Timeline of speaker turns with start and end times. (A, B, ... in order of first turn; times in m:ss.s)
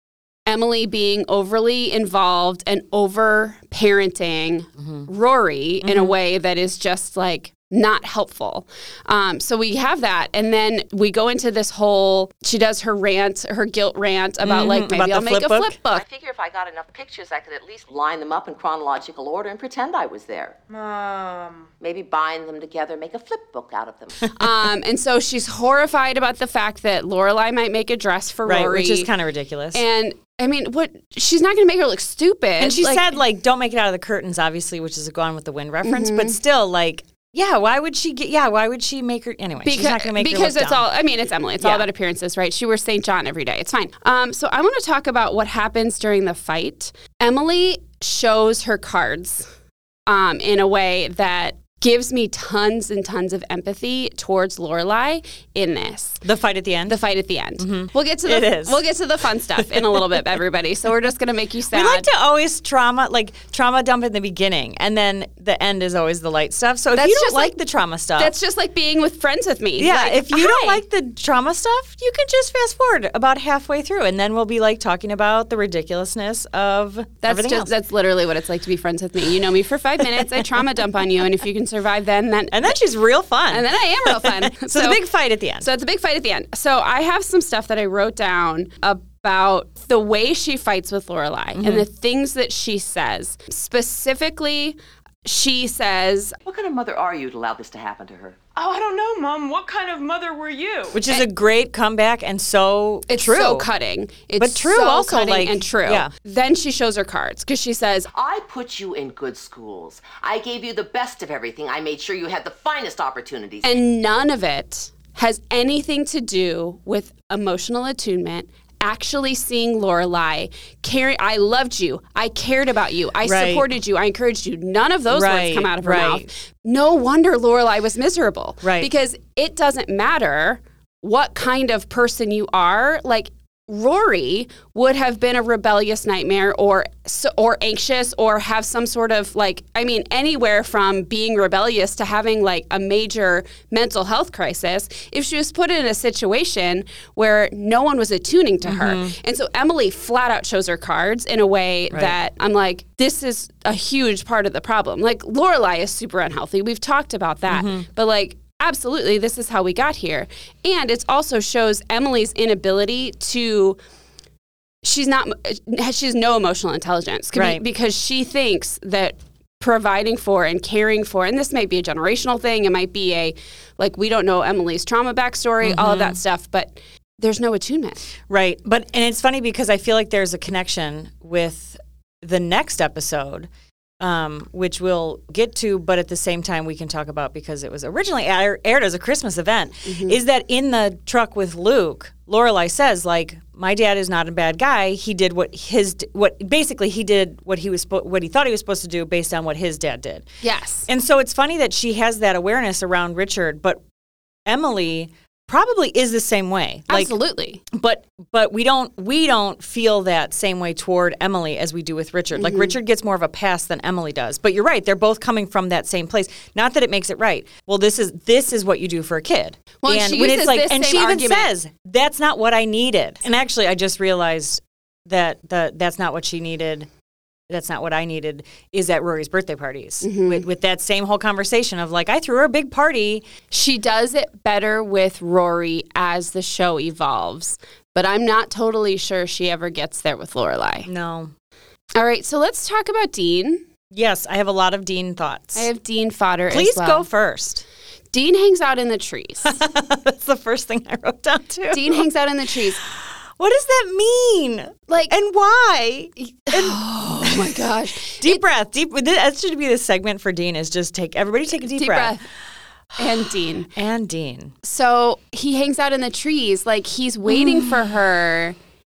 0:00.5-0:16.0 A
0:05.8-0:06.2 B
0:14.4-0:15.8 B
0:15.9-0:20.6 C
0:20.7-0:21.7 D
0:21.8-0:24.2 C
0:24.4-0:29.1 A
0:28.4-0:29.8 B
0:29.7-0:33.1 A
0:32.6-0:40.9 B
0:35.8-0:36.4 A
0:39.6-0:49.5 A
0:41.6-0:41.9 B
0:50.1-0:56.2 A
0:56.2-0:57.0 B
0:56.9-1:02.1 A
0:57.6-0:58.8 B
0:59.6-1:00.3 B
1:01.7-1:08.3 B
1:07.0-1:07.6 A
1:08.2-1:10.8 A
1:09.8-1:17.7 B
1:17.2-1:22.7 A
1:22.5-1:25.7 B
1:23.5-1:25.0 A
1:25.6-1:36.4 A
1:31.6-1:31.9 B
1:36.4-1:38.4 C
1:38.6-1:41.0 D
1:40.9-1:43.7 B
1:43.1-1:48.1 A
1:44.4-1:46.1 B
1:48.1-1:53.8 C
1:53.6-2:43.8 A
2:03.2-2:03.7 B
2:05.1-2:06.3 B
2:08.6-2:08.9 B
2:28.6-2:29.1 B
2:31.9-2:32.2 B
2:37.5-2:37.8 B
2:44.8-2:58.0 A
2:47.3-2:47.6 B
2:55.6-2:56.2 B
2:58.3-3:03.5 B
3:04.0-3:20.3 B
3:09.8-3:10.2 A
3:20.4-3:20.9 A
3:20.9-3:23.8 B
3:24.5-3:27.1 B
3:26.9-3:27.6 A
3:27.7-3:46.9 B
3:32.4-3:32.7 A
3:39.8-3:41.5 A
3:47.5-3:53.3 B
3:50.0-3:50.4 A
3:53.5-4:00.9 A
4:00.9-4:01.3 B
4:02.0-4:03.6 A
4:03.9-4:05.7 B
4:05.6-4:07.0 A
4:06.5-4:07.6 B
4:08.1-4:09.6 A
4:09.4-4:12.0 B
4:11.7-4:12.8 A
4:12.8-4:22.2 B
4:14.9-4:15.1 A
4:16.2-4:18.4 A
4:21.7-4:22.2 A
4:22.9-4:24.5 B
4:23.0-4:23.7 A
4:24.6-4:28.6 A
4:27.3-4:27.9 B